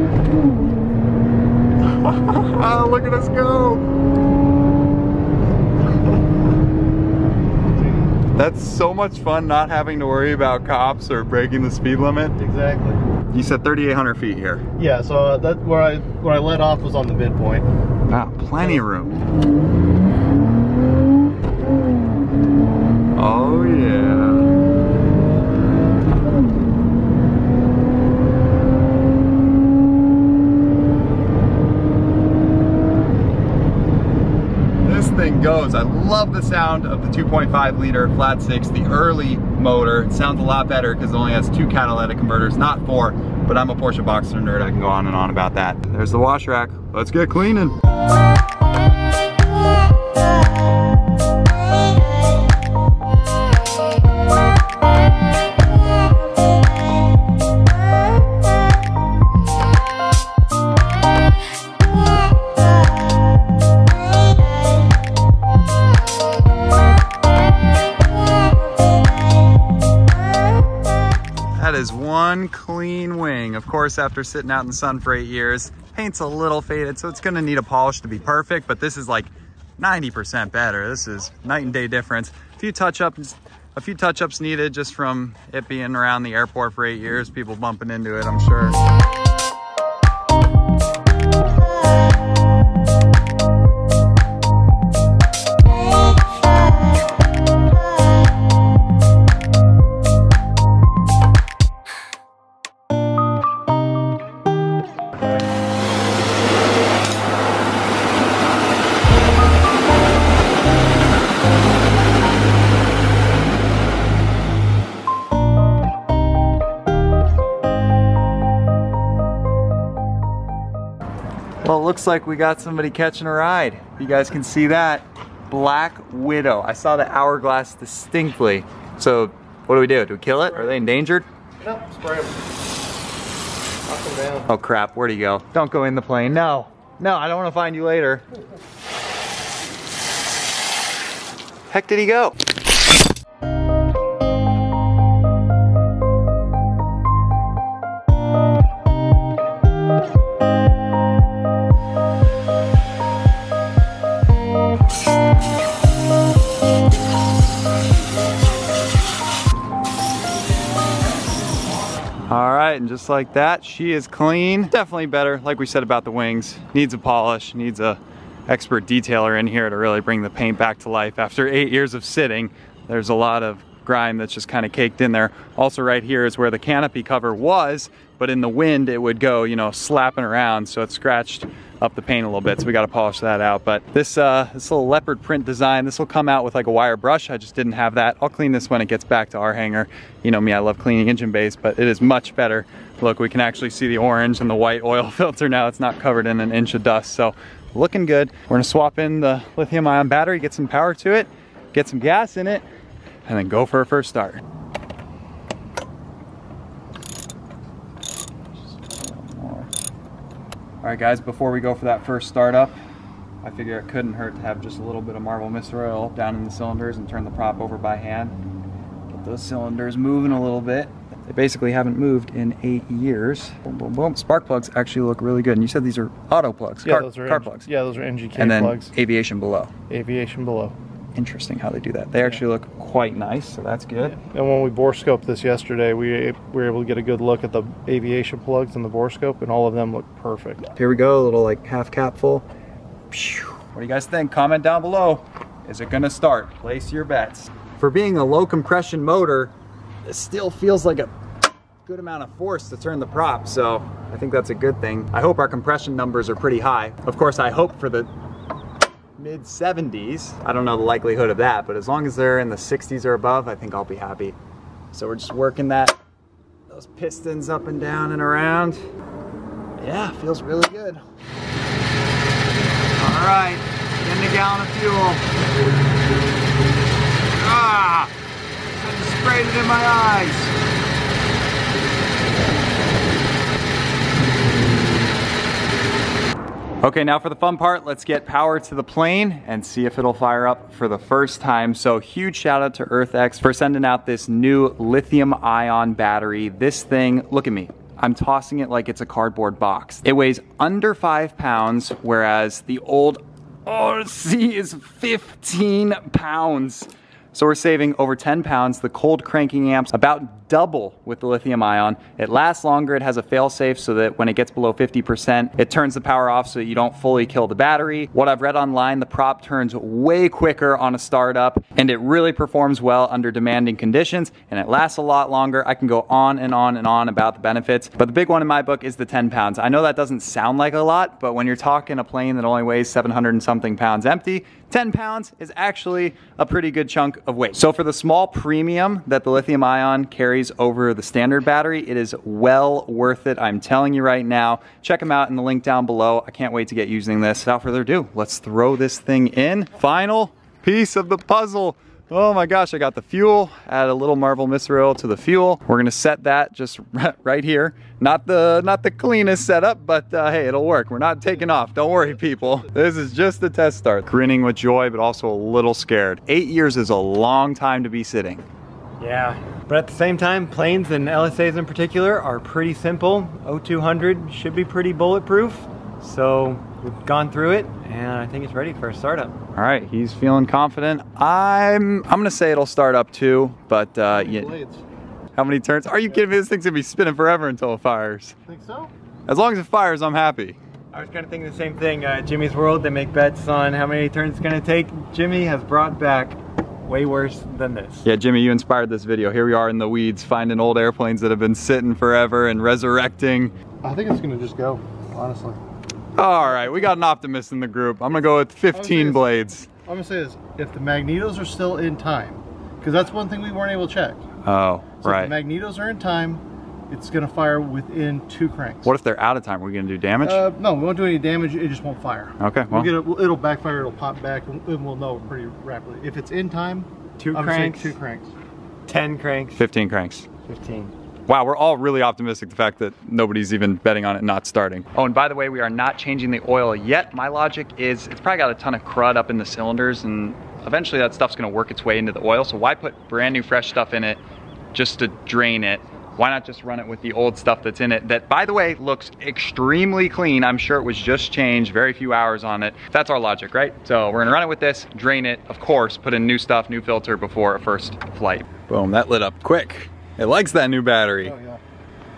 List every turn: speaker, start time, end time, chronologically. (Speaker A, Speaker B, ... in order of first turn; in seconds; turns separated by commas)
Speaker A: 1.8-3.8, Speaker B: 7.7-8.2, Speaker A: 8.3-12.3, Speaker B: 12.3-13.0, Speaker A: 13.3-14.6, Speaker B: 14.8-17.7, Speaker A: 18.1-19.2, Speaker A: 23.1-24.5, Speaker A: 34.8-47.8, Speaker A: 71.5-88.8, Speaker A: 121.6-131.2, Speaker B: 131.6-132.5, Speaker B: 133.8-134.5, Speaker A: 134.5-138.2, Speaker A: 141.7-142.3, Speaker A: 162.3-202.6, Speaker A: 203.2-204.4, Speaker A: 208.6-209.7, Speaker A: 210.8-212.8, Speaker A: 213.4-218.4, Speaker A: 219.1-227.7, Speaker B: 226.8-228.9, Speaker A: 228.3-229.7, Speaker B: 229.9-230.8, Speaker A: 231.1-234.2, Speaker B: 234.0-240.7, Speaker A: 240.7-242.4, Speaker A: 243.1-249.5, Speaker A: 250.1-251.1, Speaker A: 251.8-258.1, Speaker A: 259.2-264.4, Speaker A: 264.9-265.9, Speaker A: 266.7-268.8, Speaker A: 269.8-271.0, Speaker A: 273.0-275.2, Speaker A: 277.3-278.1, Speaker A: 278.8-280.5, Speaker A: 286.8-368.4, Speaker B: 361.3-362.7, Speaker C: 369.0-379.4, Speaker A: 379.5-384.5, Speaker B: 384.1-384.8, Speaker A: 385.3-388.3, Speaker B: 388.5-388.9, Speaker A: 389.3-390.6, Speaker C: 390.9-398.1, Speaker A: 398.0-403.5, Speaker B: 403.8-405.6, Speaker A: 406.1-409.7, Speaker B: 406.4-406.9, Speaker B: 408.7-414.2, Speaker A: 414.4-415.3, Speaker B: 415.0-418.9, Speaker A: 418.8-420.4, Speaker B: 420.2-428.3, Speaker A: 422.4-422.9, Speaker C: 427.2-427.9, Speaker C: 428.9-429.6, Speaker A: 429.6-430.2, Speaker C: 430.4-430.9, Speaker A: 431.3-444.2, Speaker A: 444.7-461.3, Speaker B: 461.2-461.6